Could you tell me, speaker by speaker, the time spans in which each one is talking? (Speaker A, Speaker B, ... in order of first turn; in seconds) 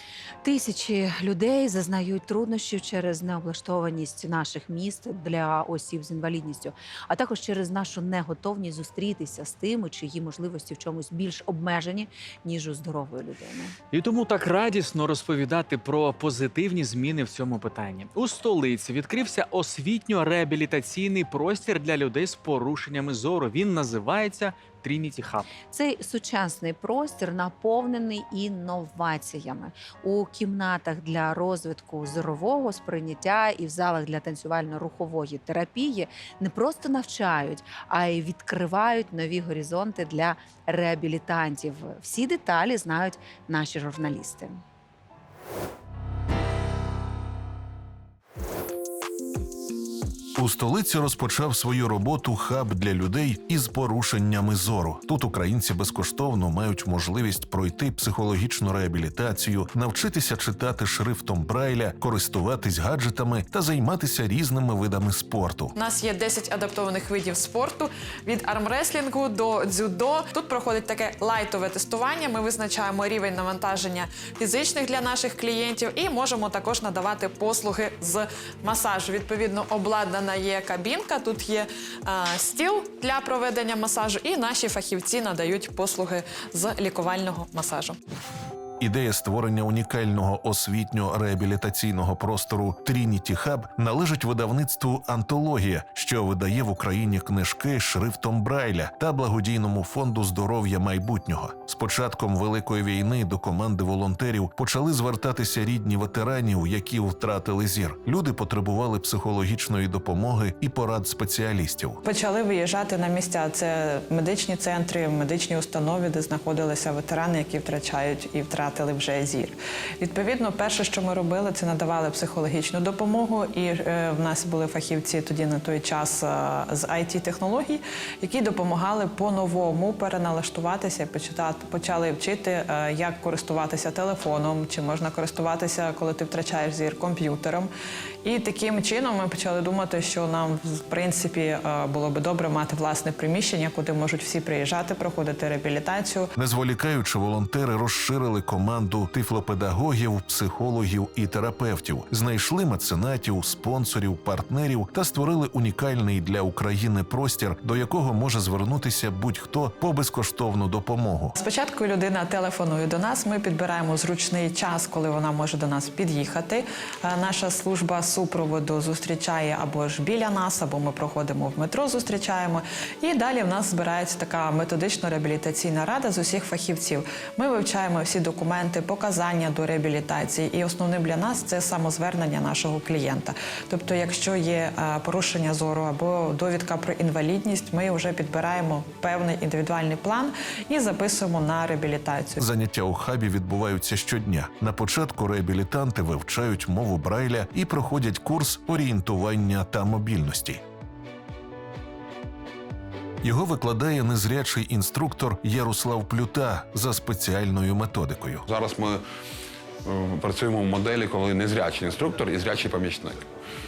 Speaker A: 0.4-13.8, 25.6-44.6
Speaker B: 13.9-25.4
Speaker C: 50.4-65.8, 88.8-112.0, 146.4-161.3, 192.4-200.6, 203.2-208.4
Speaker D: 65.8-88.0, 112.0-137.7, 138.2-146.3, 161.3-192.4
Speaker E: 208.5-209.0, 209.9-213.2